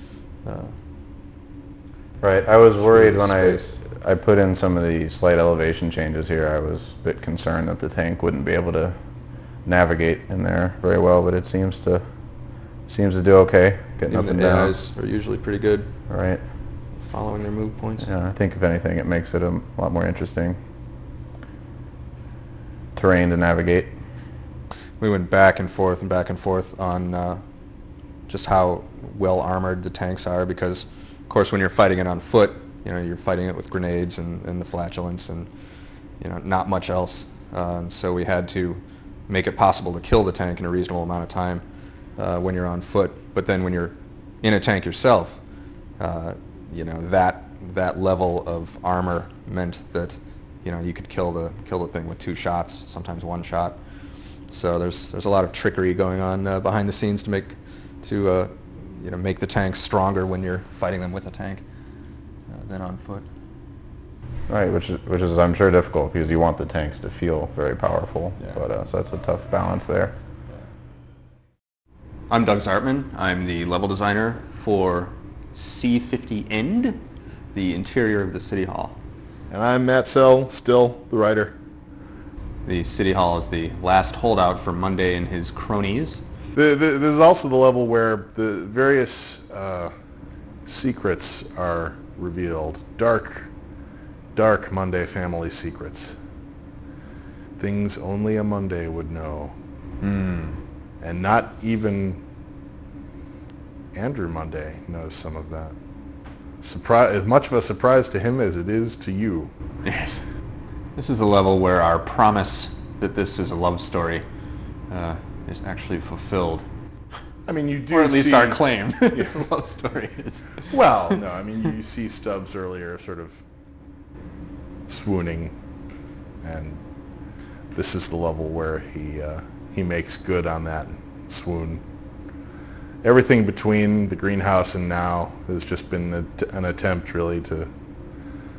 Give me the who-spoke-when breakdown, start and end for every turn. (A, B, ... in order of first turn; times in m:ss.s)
0:00.4-0:00.8 A
0:02.2-0:14.8 B
0:02.7-0:03.8 A
0:14.1-0:15.9 A
0:16.1-0:16.8 B
0:16.9-0:18.1 A
0:18.0-0:20.6 B
0:22.9-0:24.0 B
0:25.0-0:27.4 A
0:28.3-0:53.8 A
0:54.4-1:01.6 A
1:02.5-1:03.3 A
1:04.5-1:10.1 B
1:08.4-1:08.6 A
1:12.3-1:17.0 A
1:17.5-1:19.0 A
1:19.5-1:21.6 C
1:22.6-1:26.2 A
1:26.5-1:29.9 C
1:30.6-1:33.5 C
1:34.3-1:36.2 C
1:37.6-1:39.5 C
1:40.0-1:40.6 A
1:41.0-1:42.2 C
1:43.9-1:45.8 C
1:46.6-1:49.5 C
1:49.8-1:50.2 A
1:50.9-1:54.2 A
1:54.9-1:56.6 A
1:57.4-1:59.4 C
1:57.9-2:00.7 A
2:00.7-2:03.4 C
2:04.9-2:05.5 C
2:06.4-2:06.8 C
2:07.7-2:11.8 C
2:13.0-2:17.7 C